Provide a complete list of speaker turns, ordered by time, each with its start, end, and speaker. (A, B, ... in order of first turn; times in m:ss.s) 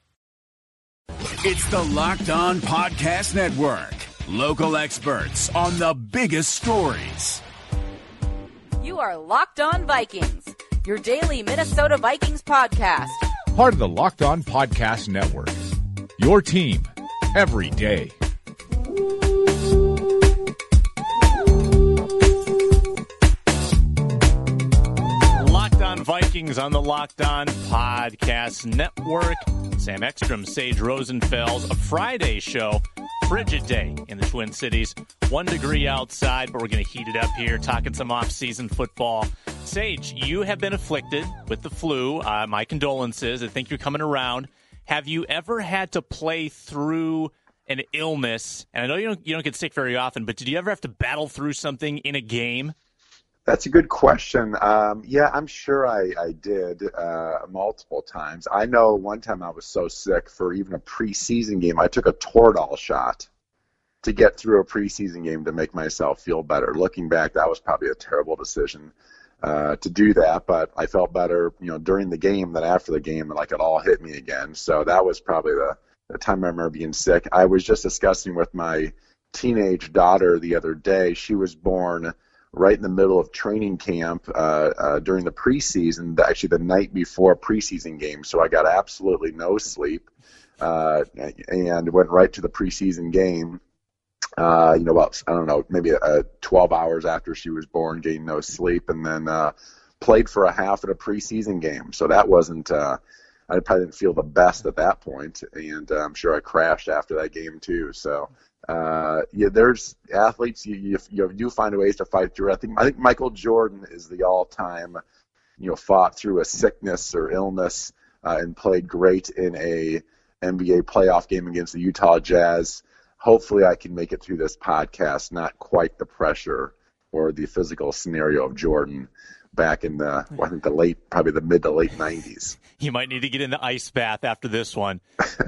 0:01.4-0:07.4 A
0:08.8-0:13.3 B
0:13.5-0:15.6 C
0:16.2-0:18.1 C
0:25.3-0:52.7 D
0:53.4-1:03.3 E
1:04.0-1:30.1 E
1:30.6-1:33.6 E
1:34.4-1:55.0 E
1:55.6-2:12.6 E
2:12.8-2:15.0 D